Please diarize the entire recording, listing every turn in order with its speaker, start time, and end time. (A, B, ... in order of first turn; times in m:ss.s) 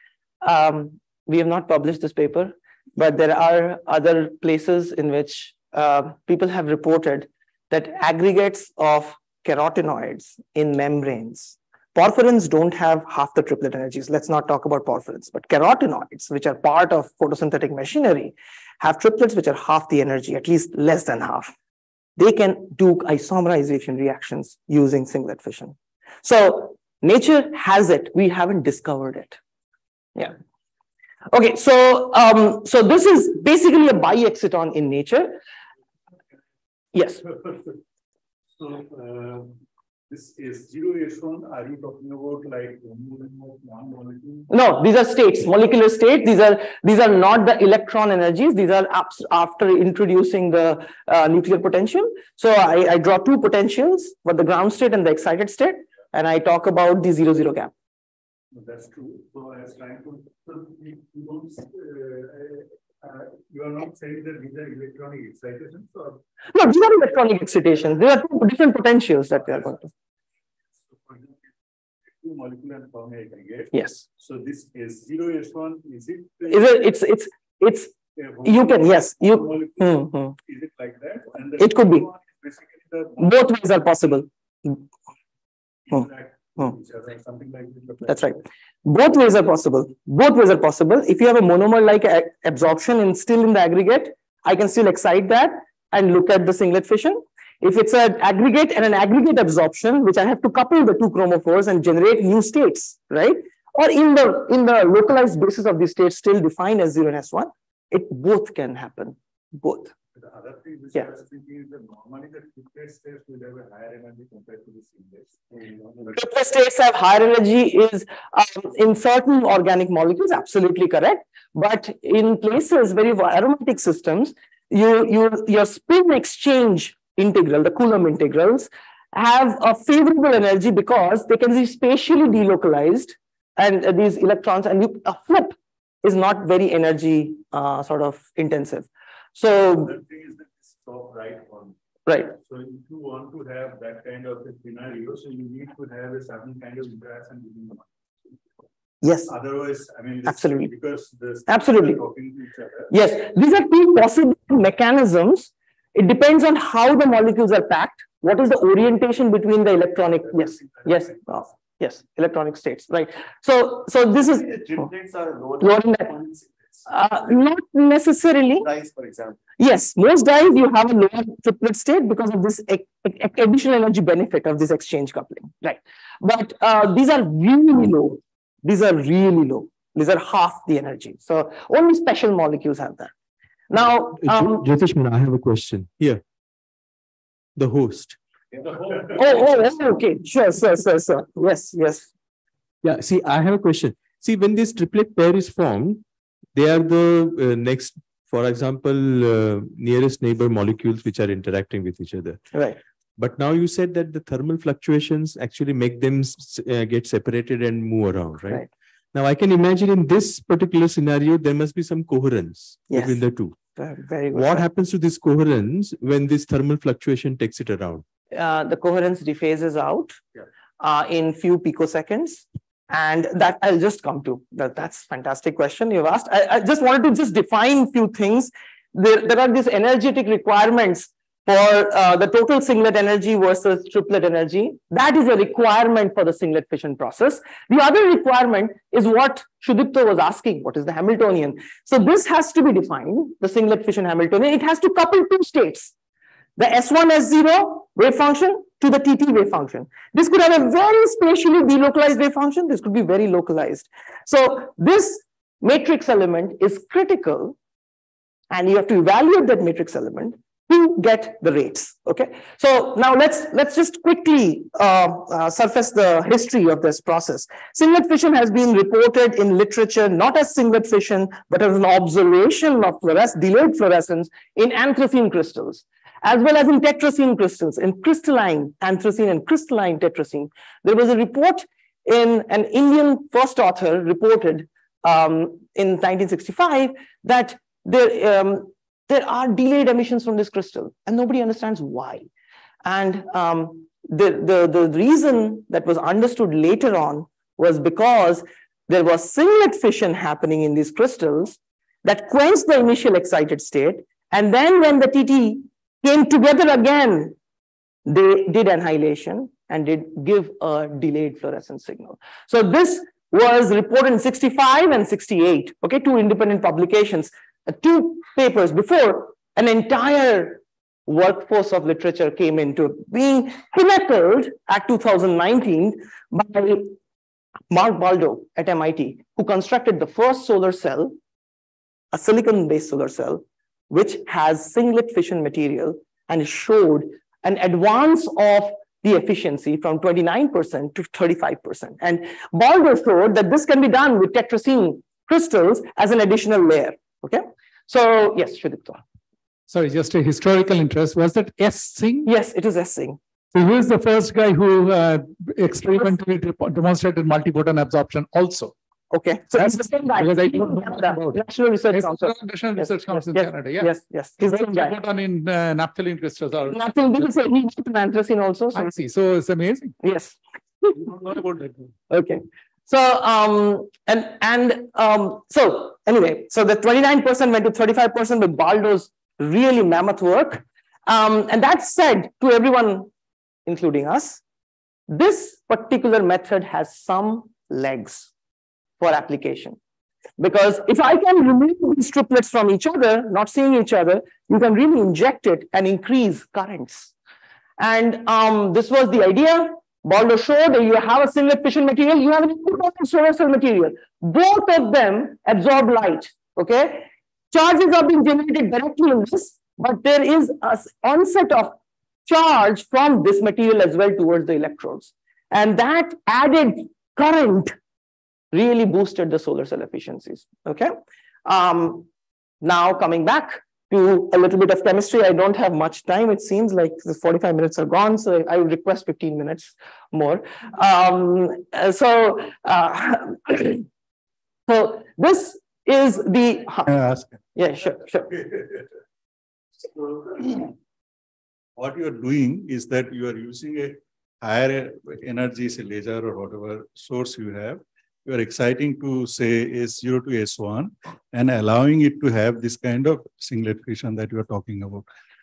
0:00.4-0:21.5 A
0:22.2-0:29.4 A
0:31.3-0:35.4 A
0:36.9-0:37.2 A
0:37.3-0:37.7 B
0:38.6-0:39.5 B
0:40.1-0:44.5 B
0:44.5-0:57.7 A
0:58.5-1:06.2 B
1:06.5-1:09.9 A
1:10.9-1:11.4 B
1:12.1-1:16.9 B
1:13.7-1:14.0 A
1:16.5-1:17.9 A
1:18.2-1:23.4 B
1:18.4-1:20.3 A
1:21.6-1:22.1 A
1:23.2-1:24.8 A
1:25.9-1:28.4 B
1:28.0-1:49.9 A
1:50.1-1:56.2 B
1:56.1-2:19.9 A
2:19.7-2:21.7 B
2:22.1-2:22.3 A
2:22.3-2:28.3 B
2:29.0-2:29.3 A
2:29.2-2:32.9 B
2:30.2-2:30.7 A
2:31.5-2:32.0 A
2:32.9-2:44.5 A
2:40.3-2:41.2 B
2:44.2-2:46.9 C
2:45.6-2:46.1 A
2:46.9-2:48.6 A
2:48.6-2:49.4 C
2:49.6-3:03.1 A
3:03.7-3:04.6 A
3:04.2-3:06.2 D
3:07.6-3:08.2 D
3:09.1-3:12.1 A
3:12.8-3:16.0 D
3:16.5-3:22.4 D
3:23.2-3:33.6 D
3:32.9-3:33.2 A
3:33.8-3:34.6 A
3:34.3-3:38.0 D
3:38.3-3:40.2 A
3:40.8-4:05.9 A
4:06.6-4:17.5 A
4:18.5-4:52.2 A
4:52.8-5:07.4 A
5:08.0-5:26.9 A
5:27.7-5:31.1 A
5:32.1-5:49.0 A
5:49.7-5:52.3 E
5:52.2-5:53.2 A
5:53.5-5:58.7 E
5:59.1-6:05.0 A
5:59.5-6:06.8 E
6:06.7-6:08.9 A
6:08.7-6:09.9 E
6:10.0-6:11.0 A
6:11.0-6:11.8 E
6:12.1-6:23.1 A
6:23.6-6:24.4 A
6:25.1-6:28.3 A
6:29.0-6:29.8 A
6:30.4-6:37.1 A
6:37.8-6:51.7 A
6:52.2-6:57.7 A
6:58.5-7:00.9 A
7:01.4-7:02.1 A
7:02.6-7:13.8 A
7:14.7-7:16.9 A
7:16.9-7:17.2 B
7:17.6-7:18.3 A
7:18.3-7:18.8 B
7:19.9-7:20.7 B
7:21.8-7:35.0 B